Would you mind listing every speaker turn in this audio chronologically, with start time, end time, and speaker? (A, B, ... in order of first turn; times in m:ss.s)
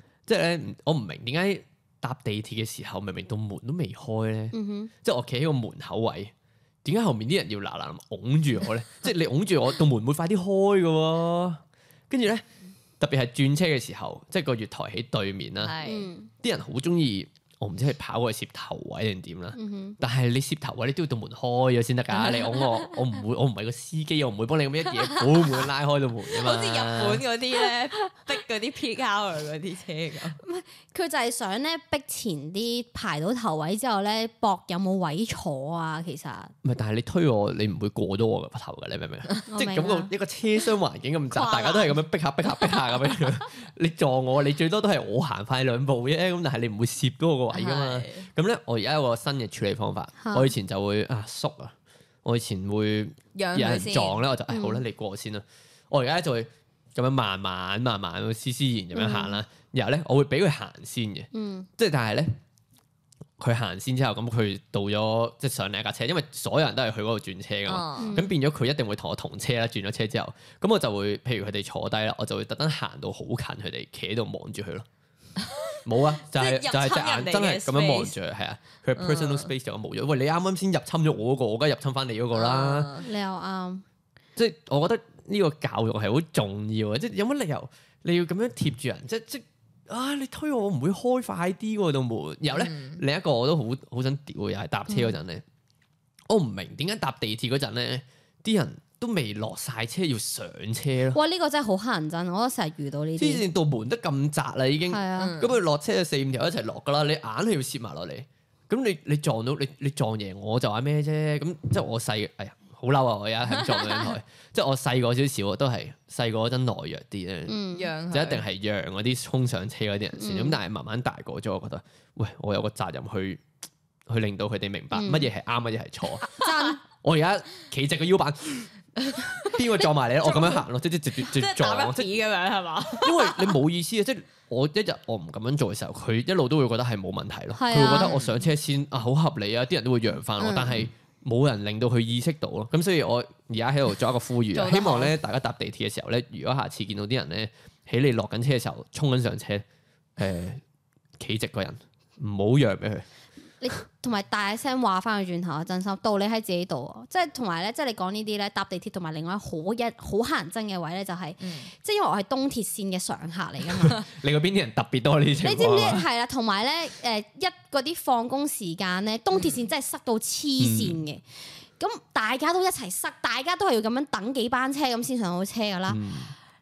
0:00.2-0:06.3 A
0:04.5-0:04.9 B
0:06.8-0:12.4 A
0:13.0-0:15.8 A
0:15.6-0:16.1 C
0:15.8-0:16.3 B
0:16.4-0:27.2 A
0:19.5-0:20.0 B
0:25.0-0:25.6 C
0:26.3-0:30.4 C
0:30.4-0:36.5 B
0:36.6-1:02.3 A
0:39.5-0:40.1 B
0:41.3-0:42.0 C
0:47.5-0:48.3 C
0:50.2-0:50.5 B
0:53.3-0:54.2 C
0:54.5-0:54.8 B
0:58.9-0:59.4 B
1:01.3-1:01.7 B
1:03.4-1:14.8 A
1:07.7-1:08.2 C
1:08.0-1:08.3 B
1:15.4-1:18.1 C
1:15.8-1:22.9 A
1:19.0-1:19.5 C
1:22.3-1:23.1 C
1:23.0-1:23.8 B
1:24.4-1:35.4 A
1:32.5-1:33.0 C
1:34.9-1:35.2 B
1:36.3-1:41.2 A
1:41.1-1:43.4 B
1:43.2-1:57.6 A
1:44.9-1:45.4 B
1:45.2-1:45.6 C
1:53.6-1:54.1 C
1:57.5-1:57.9 B
1:57.7-1:58.4 C
1:58.1-2:03.4 A
2:00.2-2:00.6 B
2:04.1-2:08.7 A
2:04.9-2:05.3 B
2:06.3-2:06.8 B
2:09.0-2:09.5 C
2:09.4-2:12.1 A
2:09.8-2:10.6 B
2:11.2-2:13.5 C
2:13.0-2:29.6 A
2:17.5-2:18.2 B
2:17.8-2:18.3 C
2:20.4-2:20.8 B
2:24.5-2:25.1 C
2:30.2-2:30.6 A
2:31.2-2:33.0 A
2:33.6-2:44.0 B
2:41.4-2:41.7 C
2:43.7-2:46.0 A
2:45.4-2:51.2 B
2:49.3-2:49.6 C
2:50.6-2:51.0 A
2:51.8-2:56.0 B
2:55.9-2:56.3 A